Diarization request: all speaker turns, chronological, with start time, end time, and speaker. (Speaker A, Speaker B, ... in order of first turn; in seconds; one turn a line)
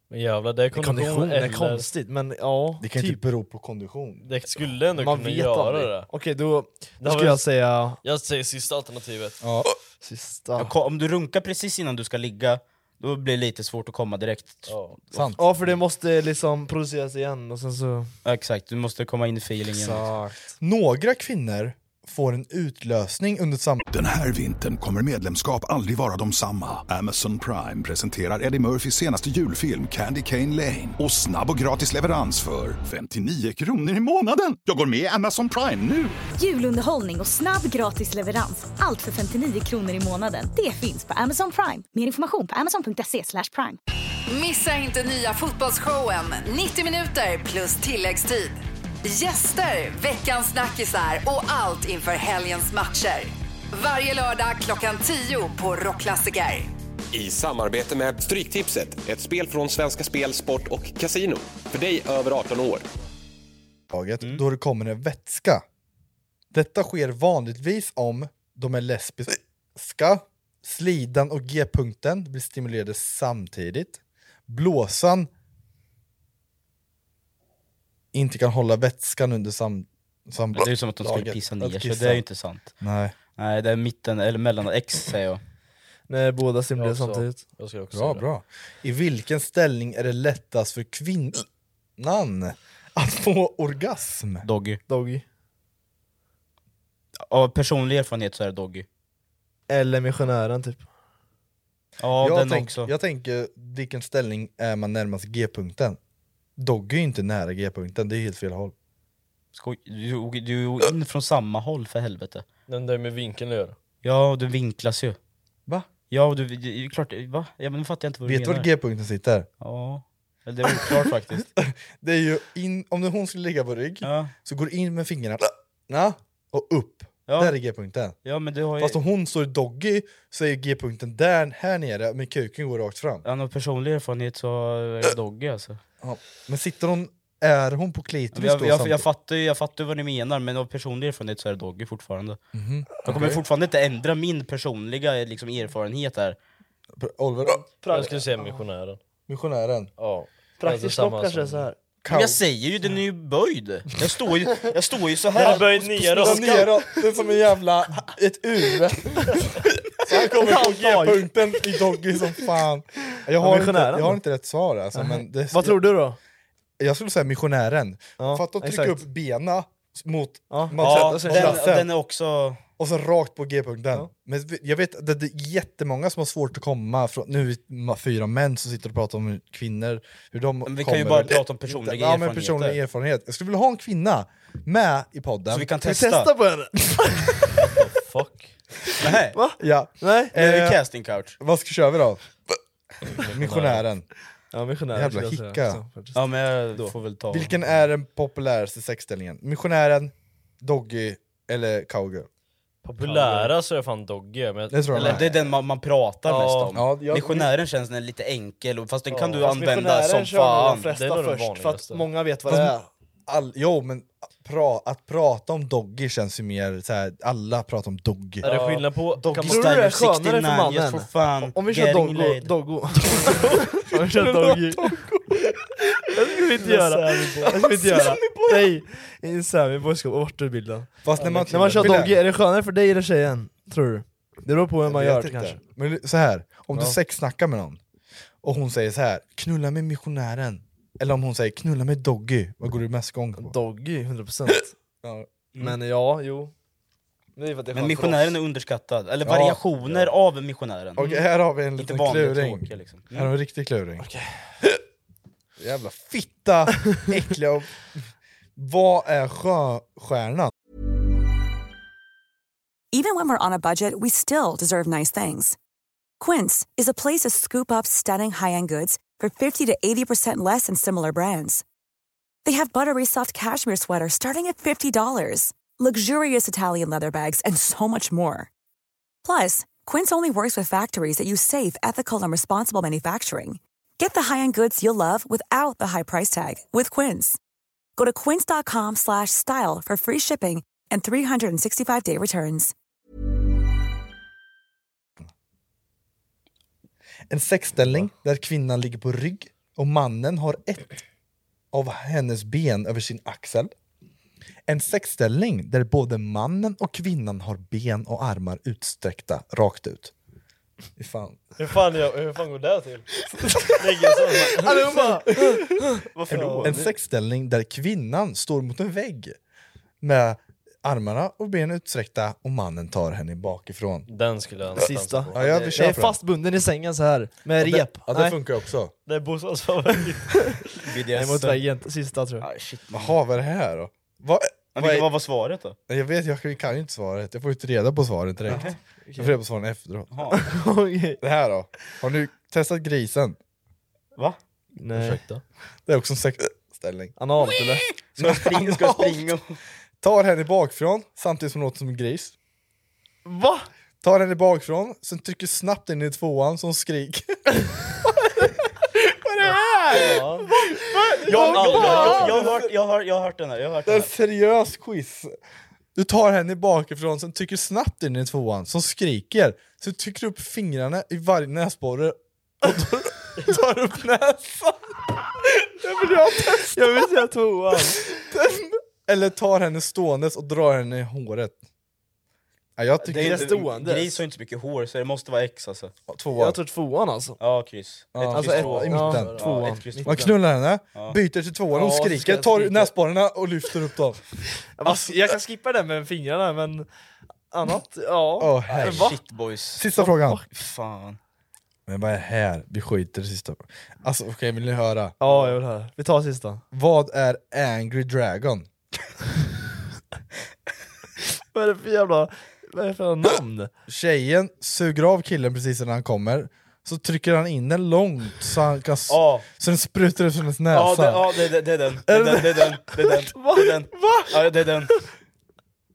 Speaker A: 0.1-1.9
Speaker B: 0.8-1.4
Speaker C: 1.2-3.2
Speaker B: 2.8-4.3
Speaker A: 4.2-6.1
Speaker C: 5.0-8.0
Speaker A: 7.0-7.5
Speaker A: 8.0-9.4
Speaker B: 9.4-9.7
Speaker C: 10.0-10.7
Speaker D: 10.6-15.3
Speaker A: 14.7-15.0
Speaker B: 15.1-15.4
Speaker C: 15.4-18.1
Speaker D: 18.2-20.0
Speaker A: 19.9-20.3
Speaker B: 20.6-23.8
Speaker E: 23.9-36.1
Speaker F: 36.4-43.8
Speaker G: 44.3-56.7
Speaker H: 57.1-62.8
Speaker B: 63.9-65.6
Speaker B: 66.5-75.3
Speaker B: 78.1-82.2
Speaker D: 80.6-82.7
Speaker B: 82.8-83.1
Speaker D: 83.4-85.4
Speaker C: 86.1-87.5
Speaker A: 86.8-88.2
Speaker B: 87.9-91.5
Speaker B: 92.0-94.5
Speaker D: 94.4-94.8
Speaker C: 94.9-95.2
Speaker D: 97.3-98.8
Speaker C: 99.7-100.9
Speaker D: 102.0-102.9
Speaker B: 102.2-106.0
Speaker B: 106.6-108.7
Speaker D: 109.5-112.4
Speaker A: 112.7-113.8
Speaker D: 114.0-115.2
Speaker D: 116.1-118.7
Speaker B: 118.2-119.5
Speaker D: 119.6-121.5
Speaker B: 121.6-128.2
Speaker D: 124.0-124.3
Speaker D: 127.3-127.5
Speaker D: 128.2-129.0
Speaker B: 128.8-133.2
Speaker D: 133.2-135.8
Speaker B: 136.0-139.1
Speaker D: 138.3-142.4
Speaker B: 142.5-143.4
Speaker D: 143.0-146.4
Speaker B: 147.0-147.7
Speaker C: 147.4-148.6
Speaker A: 147.9-149.0
Speaker B: 149.3-149.9
Speaker A: 150.0-151.7
Speaker C: 150.6-151.8
Speaker B: 152.0-152.4
Speaker D: 152.1-156.7
Speaker A: 155.4-156.8
Speaker B: 155.5-165.8
Speaker C: 160.3-161.4
Speaker C: 163.4-164.2
Speaker C: 164.9-166.2
Speaker B: 166.8-171.9
Speaker C: 168.2-169.1
Speaker C: 170.5-171.7
Speaker D: 170.8-172.6
Speaker B: 172.8-185.7
Speaker D: 180.6-182.8
Speaker D: 185.5-186.3
Speaker C: 185.8-187.4
Speaker A: 187.6-188.6
Speaker D: 189.0-189.4
Speaker C: 189.3-190.4
Speaker B: 189.6-190.8
Speaker D: 190.3-191.4
Speaker B: 191.4-192.2
Speaker B: 193.2-194.1
Speaker A: 193.2-193.8
Speaker C: 194.5-196.9
Speaker B: 194.9-195.8
Speaker D: 196.1-197.5
Speaker B: 197.3-202.3
Speaker A: 202.8-205.3
Speaker C: 203.0-203.5
Speaker B: 203.1-203.5
Speaker B: 204.7-205.3
Speaker D: 205.0-210.9
Speaker A: 206.2-206.8
Speaker B: 206.7-207.5
Speaker A: 209.1-209.6
Speaker C: 209.4-212.9
Speaker A: 210.9-212.1
Speaker B: 212.5-212.7
Speaker B: 213.3-218.5
Speaker A: 218.4-219.9
Speaker D: 218.5-222.6
Speaker C: 219.4-224.9
Speaker B: 223.7-225.7
Speaker C: 226.1-235.6
Speaker A: 226.7-227.5
Speaker B: 227.1-228.4
Speaker D: 227.8-228.7
Speaker B: 231.0-232.2
Speaker A: 231.2-231.9
Speaker D: 231.6-231.9
Speaker B: 234.8-237.8
Speaker C: 236.7-237.0
Speaker B: 238.4-243.5
Speaker C: 243.4-244.7
Speaker C: 245.6-246.5
Speaker C: 247.3-248.4
Speaker D: 247.7-251.0
Speaker B: 249.2-249.6
Speaker B: 251.0-254.1
Speaker C: 251.0-251.2
Speaker D: 251.8-253.3
Speaker C: 254.0-254.3
Speaker B: 255.6-257.9
Speaker B: 258.6-260.5
Speaker I: 262.9-265.6
Speaker I: 266.2-271.6
Speaker I: 272.4-278.5
Speaker I: 279.2-287.4
Speaker I: 288.0-292.7
Speaker B: 297.3-301.0
Speaker B: 301.7-303.7
Speaker B: 304.7-310.1
Speaker B: 311.0-311.4
Speaker A: 311.6-313.1
Speaker B: 313.3-319.4
Speaker A: 313.6-316.5
Speaker C: 314.6-315.4
Speaker D: 316.1-316.9
Speaker C: 316.3-316.7
Speaker B: 320.0-324.1
Speaker A: 324.1-325.8
Speaker B: 324.8-326.2
Speaker C: 324.8-328.4
Speaker B: 327.6-328.9
Speaker A: 329.1-330.8
Speaker D: 330.8-331.6
Speaker C: 331.1-332.4
Speaker D: 332.4-333.2
Speaker B: 332.9-335.1
Speaker D: 334.7-335.8
Speaker B: 335.9-340.2
Speaker C: 338.5-339.4
Speaker D: 338.5-338.8
Speaker D: 340.1-340.4
Speaker C: 340.3-341.2
Speaker B: 341.2-343.4
Speaker C: 344.8-345.2
Speaker A: 344.9-345.4
Speaker B: 345.9-347.1
Speaker C: 347.2-347.8
Speaker D: 348.1-349.6
Speaker B: 348.2-349.3
Speaker B: 350.0-352.3
Speaker C: 353.2-353.7
Speaker B: 354.0-362.7
Speaker A: 360.0-360.4
Speaker D: 361.2-364.1
Speaker C: 361.3-362.6
Speaker A: 361.7-362.2
Speaker B: 363.9-365.4
Speaker B: 365.9-377.2
Speaker C: 376.7-378.1
Speaker B: 378.2-381.6
Speaker B: 382.8-383.6
Speaker D: 383.0-385.9
Speaker C: 383.1-384.2
Speaker B: 386.1-386.6
Speaker C: 386.3-387.4
Speaker D: 387.4-390.3
Speaker B: 388.1-389.4
Speaker C: 388.3-390.4
Speaker A: 388.6-389.6
Speaker B: 390.0-394.2
Speaker C: 391.7-392.9
Speaker C: 394.8-396.9
Speaker B: 394.8-395.3
Speaker C: 397.5-399.2
Speaker B: 398.4-399.2
Speaker D: 398.8-401.2
Speaker B: 399.8-400.4
Speaker C: 400.0-400.4
Speaker B: 401.9-405.1
Speaker C: 405.2-406.6
Speaker D: 405.2-405.5
Speaker B: 406.7-408.7
Speaker C: 411.5-413.7
Speaker B: 413.9-421.3
Speaker D: 419.1-419.4
Speaker D: 420.7-424.9
Speaker B: 422.1-423.2
Speaker C: 423.3-423.7